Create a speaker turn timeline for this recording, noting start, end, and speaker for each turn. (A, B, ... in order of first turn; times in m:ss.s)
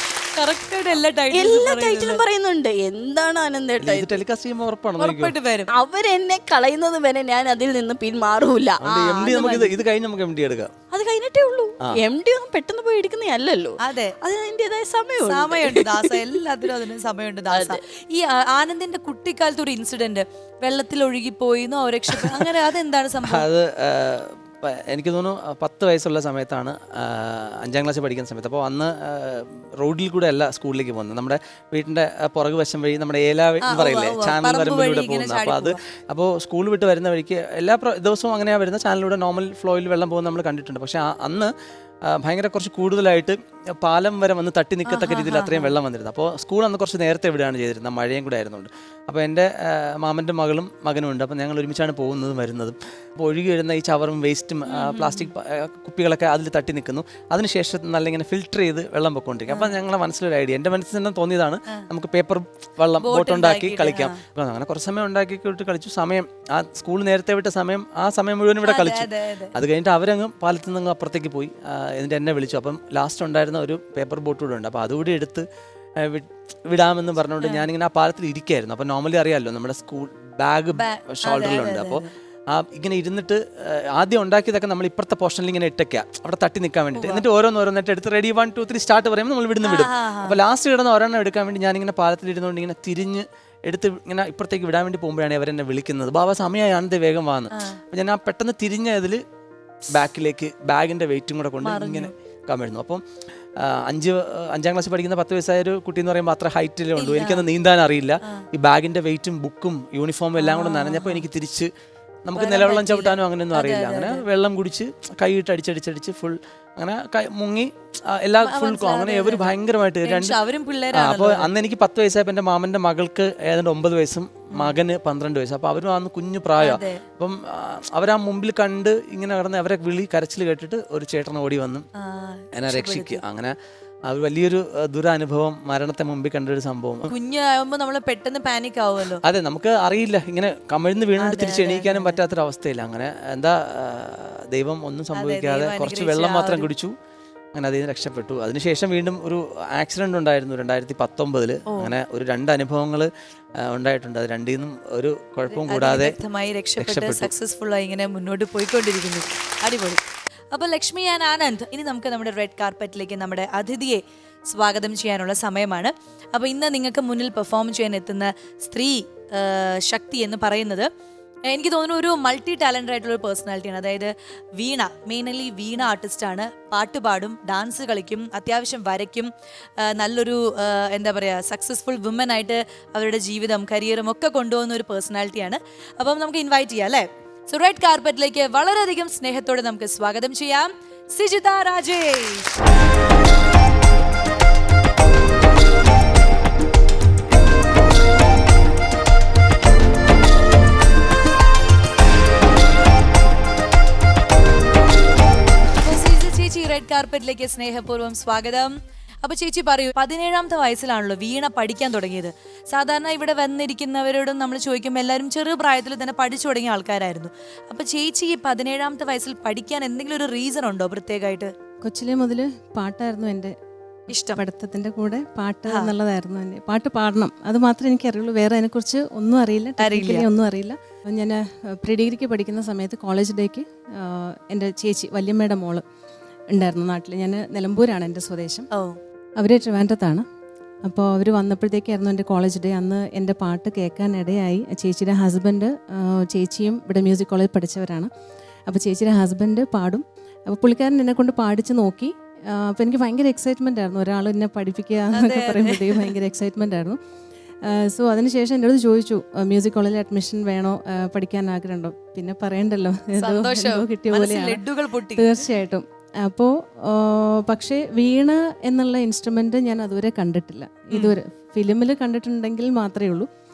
0:00.4-0:02.2 A
0:01.3-0:04.2 B
0:03.8-0:05.3 C
0:05.0-0:05.7 A
0:05.7-0:08.8 B
0:08.8-0:10.7 C
0:08.9-0:09.5 A
0:09.3-0:09.8 B
0:10.9-0:16.3 B
0:13.8-0:14.2 A
0:15.2-0:23.4 A
0:17.5-0:17.8 B
0:23.3-0:41.5 C
0:33.6-0:35.8 A
0:42.1-1:15.4 C
0:44.9-0:45.7 A
0:54.7-0:55.3 A
0:59.5-0:59.8 A
1:03.0-1:04.2 A
1:08.6-1:09.5 A
1:16.0-1:39.2 C
1:20.8-1:22.1 A
1:26.9-1:27.2 A
1:29.6-1:30.4 A
1:37.5-1:37.8 A
1:39.9-1:43.0 C
1:41.6-1:42.1 A
1:43.6-1:51.7 C
1:47.0-1:47.5 A
1:50.4-1:51.2 A
1:52.2-2:00.4 C
1:52.3-1:54.2 A
1:58.4-2:01.5 A
2:00.9-2:11.9 C
2:04.5-2:04.8 A
2:06.6-2:07.0 A
2:12.0-2:13.2 A
2:12.5-2:13.5 C
2:14.1-2:17.1 C
2:17.1-2:19.2 A
2:19.2-2:26.9 C
2:21.2-2:22.2 A
2:25.1-2:26.7 A
2:27.5-2:36.2 C
2:35.5-2:40.0 A
2:36.8-2:37.3 C
2:40.5-2:50.9 A
2:51.5-3:12.5 A
3:25.8-3:41.5 A
3:41.8-3:43.5 D
3:44.1-3:55.8 D
3:44.1-3:44.4 A
3:49.8-3:50.3 A
3:56.5-3:58.7 D
3:58.7-3:59.0 A
3:59.4-4:00.2 D
4:00.8-4:08.1 D
4:08.7-4:17.0 D
4:15.1-4:16.1 A
4:17.7-4:24.6 D
4:23.2-4:25.3 A
4:25.1-4:33.3 D